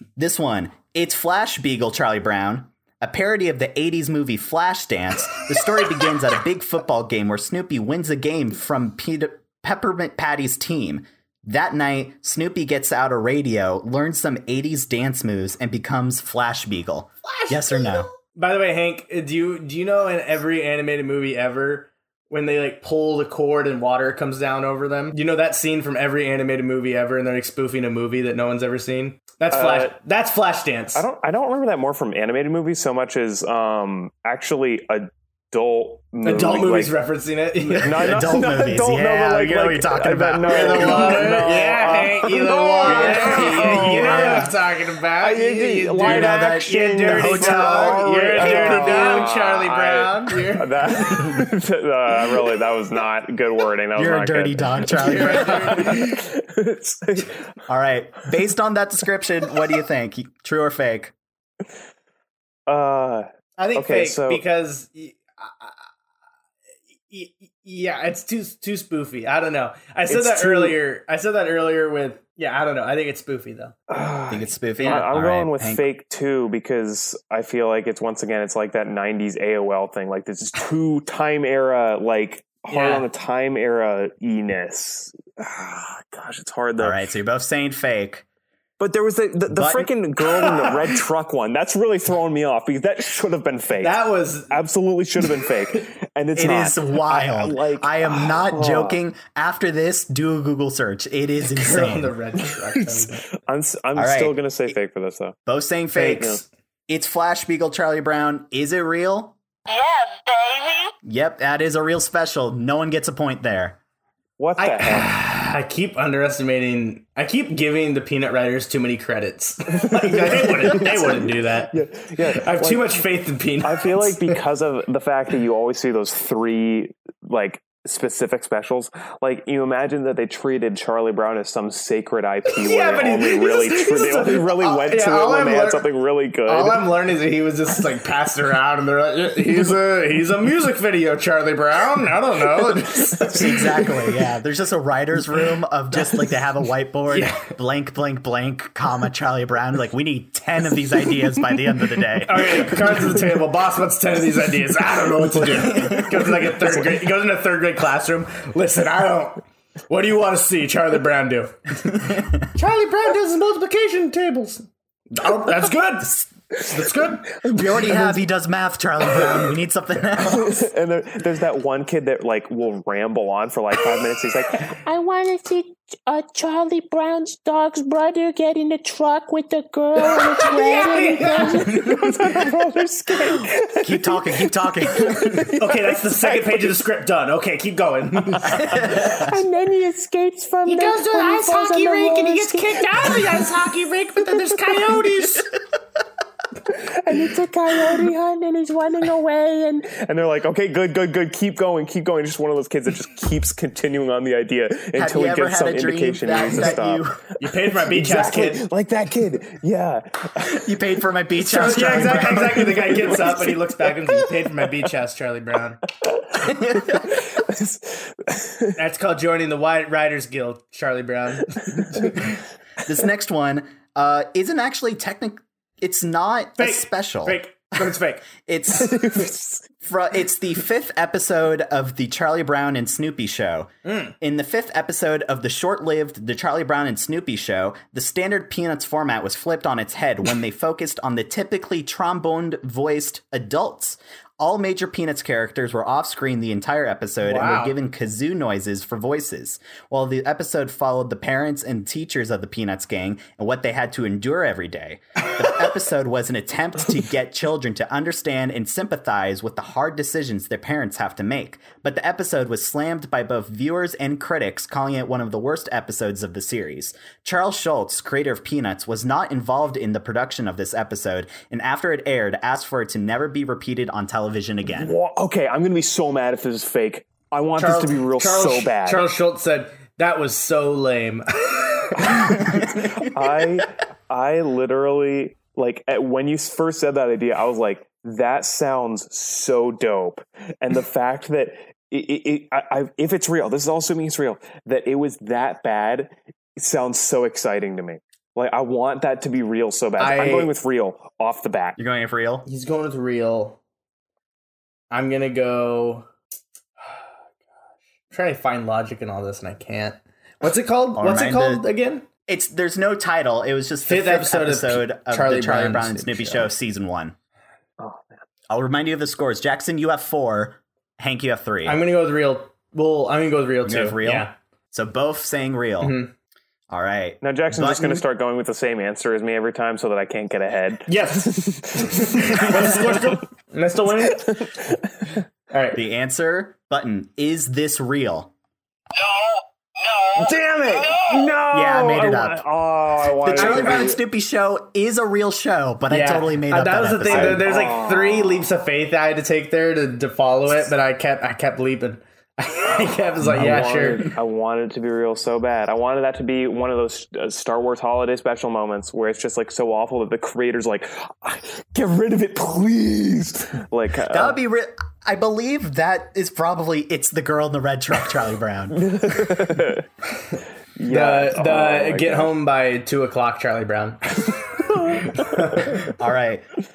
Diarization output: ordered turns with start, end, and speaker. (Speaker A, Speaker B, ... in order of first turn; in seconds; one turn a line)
Speaker A: 0.2-18.1
Speaker B: 17.2-31.0
Speaker C: 29.5-29.9
Speaker C: 30.9-36.9
Speaker B: 36.2-38.2
Speaker C: 37.7-44.6
Speaker A: 37.9-41.4
Speaker B: 40.4-51.4
Speaker A: 42.8-44.5
Speaker C: 45.2-57.4
Speaker A: 46.0-49.2
Speaker A: 54.0-56.0
Speaker B: 55.0-56.2
Speaker A: 57.7-61.1
Speaker C: 62.7-64.4
Speaker B: 63.6-65.8
Speaker B: 67.1-73.8
Speaker C: 70.1-70.7
Speaker C: 73.9-87.1
Speaker A: 74.3-75.8
Speaker B: 74.8-75.1
Speaker B: 82.7-83.1
Speaker A: 86.8-88.2
Speaker C: 88.8-94.0
Speaker A: 89.5-89.9
Speaker B: 90.2-91.0
Speaker B: 93.8-94.6
Speaker C: 94.5-99.0
Speaker A: 96.3-102.1
Speaker B: 101.4-103.3
Speaker C: 102.8-105.4
Speaker A: 104.0-104.5
Speaker A: 105.5-109.3
Speaker C: 105.9-106.4
Speaker D: 109.7-110.9
Speaker A: 111.0-113.8
Speaker C: 114.4-115.1
Speaker B: 114.6-124.3
Speaker C: 119.7-123.0
Speaker C: 123.6-136.9
Speaker B: 132.5-135.9
Speaker B: 136.4-144.0
Speaker A: 143.2-152.8
Speaker B: 147.1-147.4
Speaker B: 152.2-168.2
Speaker A: 155.8-156.1
Speaker A: 167.4-170.6
Speaker C: 170.2-174.8
Speaker E: 174.8-183.5
Speaker B: 180.2-182.0
Speaker C: 181.8-184.2
Speaker A: 183.8-185.6
Speaker C: 184.9-186.7
Speaker B: 185.5-188.9
Speaker A: 188.4-189.3
Speaker E: 188.9-193.7
Speaker B: 190.6-195.5
Speaker E: 194.2-195.1
Speaker C: 196.7-198.1
Speaker E: 197.1-199.9
Speaker C: 199.8-207.1
Speaker A: 204.9-207.2
Speaker B: 207.4-208.6
Speaker C: 207.7-210.7
Speaker A: 210.4-212.8
Speaker B: 211.4-215.8
Speaker C: 211.6-214.7
Speaker C: 216.3-218.8
Speaker A: 216.4-217.1
Speaker B: 218.8-222.3
Speaker A: 222.8-227.4
Speaker B: 226.6-228.3
Speaker A: 228.4-229.3
Speaker C: 228.8-229.6
Speaker A: 229.8-274.9
Speaker B: 233.8-234.1
Speaker B: 247.2-247.8
Speaker C: 274.7-279.1
Speaker B: 277.6-282.4
Speaker A: 282.5-283.0
Speaker C: 282.6-301.8
Speaker B: 300.0-300.5
Speaker A: 301.8-302.4
Speaker B: 302.4-303.6
Speaker B: 304.9-306.1
Speaker B: 308.1-312.1
Speaker A: 311.0-311.7
Speaker A: 312.3-317.1
Speaker B: 313.9-316.5
Speaker C: 317.8-318.1
Speaker A: 318.5-321.8
Speaker B: 321.6-324.3
Speaker A: 323.6-326.0
Speaker B: 325.8-326.1
Speaker A: 326.7-328.0
Speaker C: 327.2-333.2
Speaker B: 330.9-334.4
Speaker B: 335.5-335.8
Speaker A: 335.7-338.3
Speaker D: 339.0-341.1
Speaker C: 340.1-344.0
Speaker A: 341.5-342.4
Speaker A: 343.2-347.5
Speaker B: 343.3-343.9
Speaker B: 345.9-354.1
Speaker C: 347.1-348.5
Speaker C: 353.2-364.4
Speaker A: 364.1-368.9
Speaker C: 368.8-369.9
Speaker C: 370.8-372.3
Speaker B: 370.9-375.9
Speaker A: 375.9-376.4